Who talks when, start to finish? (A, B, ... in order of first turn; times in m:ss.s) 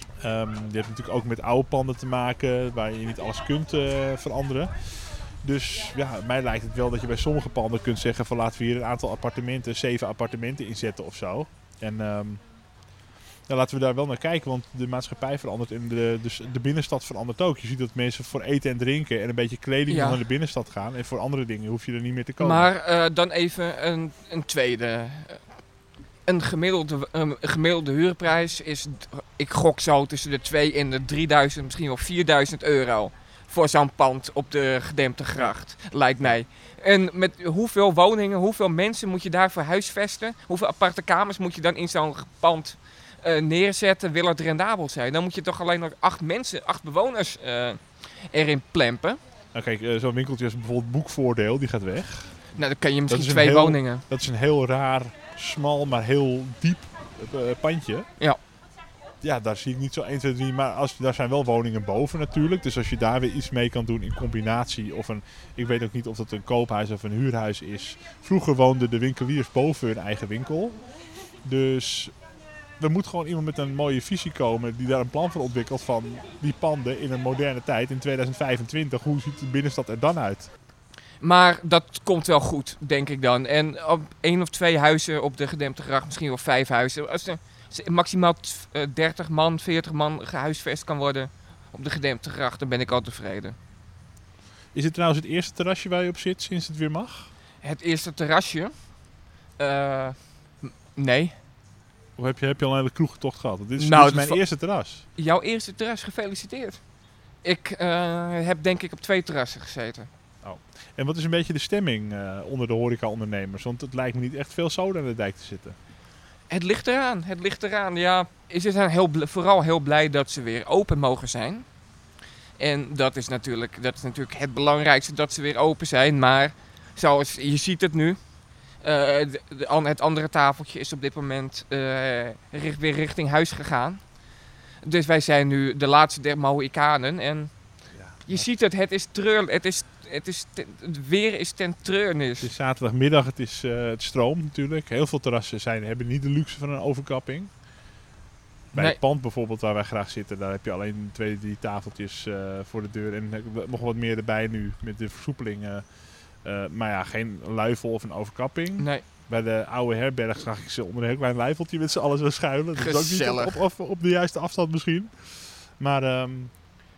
0:00.2-0:12.4 A
0:13.5-0:22.7 A
0:19.9-0:20.2 B
0:22.4-0:25.4 B
0:26.2-0:49.2 B
0:49.5-0:52.6 A
0:52.5-0:54.0 B
0:53.1-0:58.1 A
0:59.2-1:10.8 A
1:11.4-1:12.1 A
1:12.8-1:20.5 A
1:21.2-1:33.6 B
1:34.7-1:37.3 A
1:37.6-1:38.9 B
1:39.6-1:41.3 B
1:42.2-1:45.0 A
1:43.8-1:46.8 B
1:47.4-1:50.1 B
1:50.4-1:55.8 A
1:56.5-2:01.7 B
2:02.6-2:08.2 B
2:08.7-2:14.0 B
2:14.8-2:22.5 B
2:17.9-2:18.5 A
2:22.4-2:27.5 A
2:28.7-2:46.6 A
2:38.8-2:39.0 B
2:42.8-2:43.6 B